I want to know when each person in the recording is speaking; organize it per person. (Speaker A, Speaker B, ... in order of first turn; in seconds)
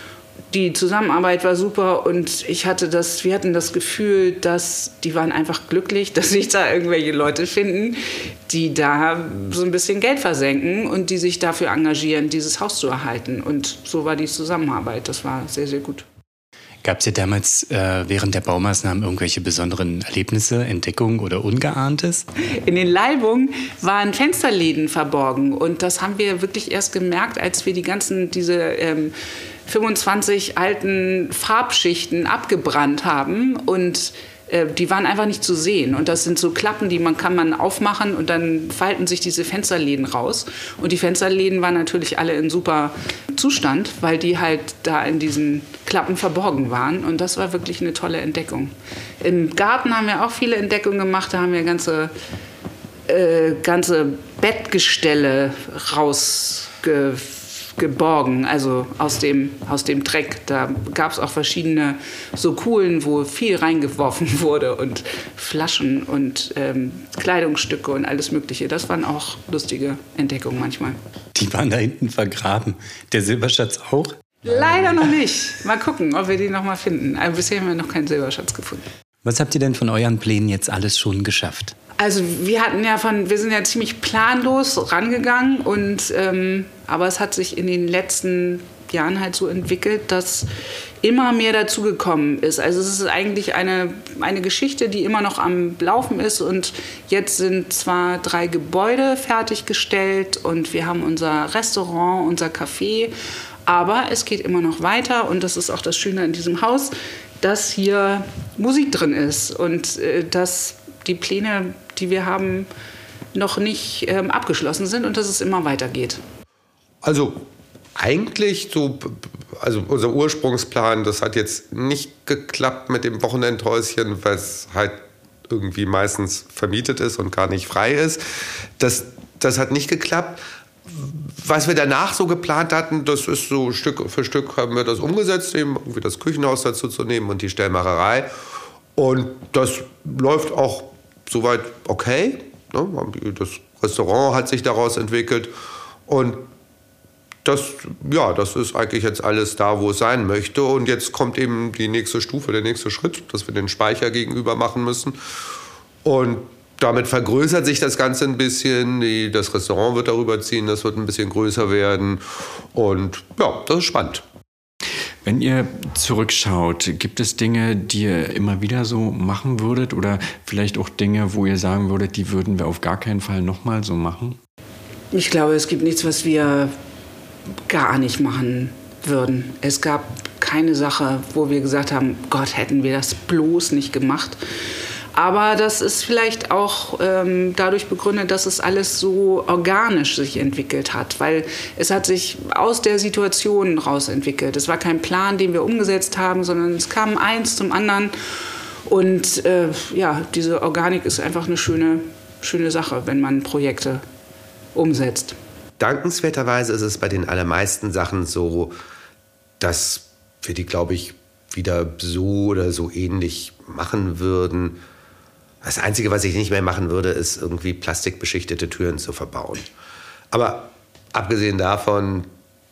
Speaker A: 0.5-16.1, 22.5-29.1, 29.7-52.1, 53.1-71.0, 74.4-78.8, 82.0-90.5, 91.0-103.1, 103.7-112.7, 113.3-116.2, 175.1-176.7, 177.7-184.4, 185.1-198.1, 198.9-204.0, 204.8-205.4
Speaker B: 16.8-22.3, 71.3-74.2, 79.2-81.8
Speaker C: 117.0-117.5, 118.0-128.2, 128.8-138.3, 139.0-145.5, 146.1-146.5, 147.4-155.2, 156.0-164.2, 205.8-208.8, 209.6-214.8, 215.6-219.7, 220.3-222.3
Speaker D: 165.2-174.4